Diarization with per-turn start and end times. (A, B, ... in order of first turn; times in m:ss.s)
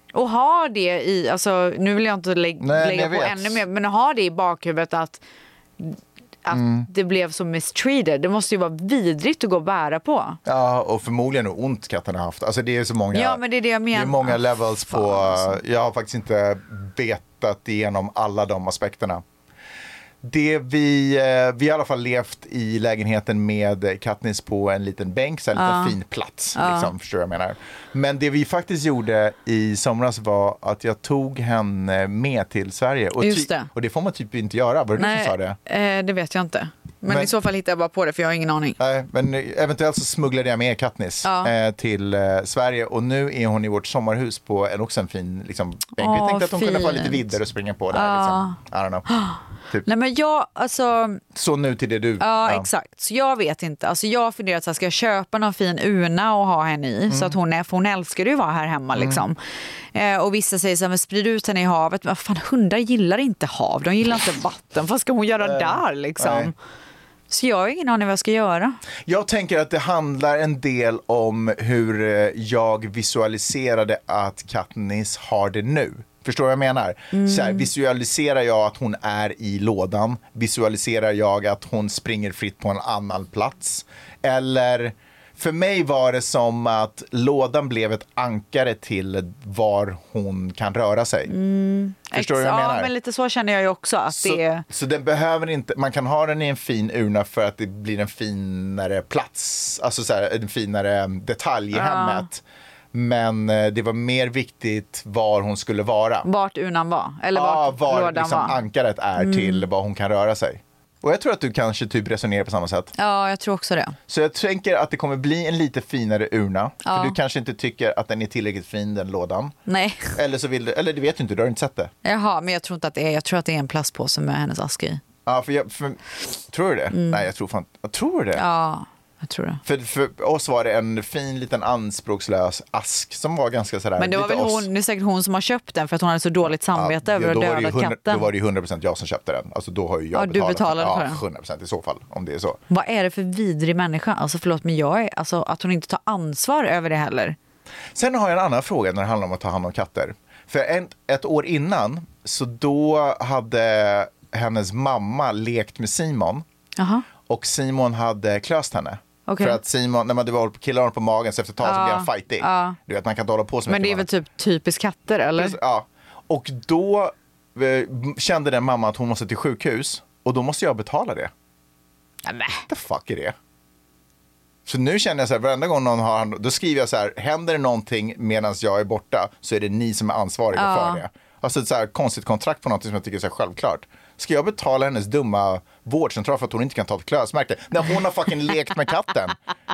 0:00.1-0:05.2 A
0:02.6-0:03.6 B
0:05.8-0:10.4 A
0:06.5-0:06.9 B
0:10.4-0:13.4 B
0:13.1-0:15.6 A
0:13.9-0:19.2 B
0:20.2-0:35.6 B
0:25.6-0:26.0 A
0:26.5-0:26.9 A
0:33.2-0:33.7 A
0:35.0-0:38.8 A
0:37.1-0:37.3 B
0:38.8-0:49.1 B
0:41.2-0:41.5 A
0:46.0-0:47.2 A
0:47.9-0:51.2 A
0:51.3-0:52.7 B
0:52.2-0:59.4 A
0:57.1-0:57.3 B
0:59.0-0:59.2 B
0:59.9-1:06.5 A
1:05.4-1:06.5 B
1:07.3-1:08.8 A
1:09.0-1:31.3 B
1:17.1-1:17.7 A
1:31.3-1:34.6 A
1:32.1-1:32.9 B
1:34.1-1:42.4 B
1:41.7-1:42.3 A
1:42.9-1:46.3 B
1:46.2-1:48.6 A
1:47.3-1:52.9 B
1:49.2-1:49.6 A
1:53.0-1:54.0 A
1:54.1-1:59.5 B
1:56.8-1:57.2 A
1:59.6-2:00.2 A
2:00.1-2:01.9 B
2:02.0-2:05.0 A
2:05.2-2:08.4 B
2:06.9-2:07.2 A
2:08.4-2:09.6 A
2:09.6-2:14.7 B
2:14.0-2:18.3 A
2:16.7-2:22.6 B
2:20.1-2:21.2 A
2:22.7-2:27.4 A
2:27.9-2:36.4 B
2:36.8-2:37.0 A
2:37.2-2:44.1 B
2:39.3-2:39.6 A
2:41.6-2:42.8 A
2:43.7-2:45.6 A
2:45.4-2:51.3 B
2:52.2-2:52.6 A
2:52.7-2:53.3 B
2:54.6-3:09.4 B
3:00.5-3:01.0 A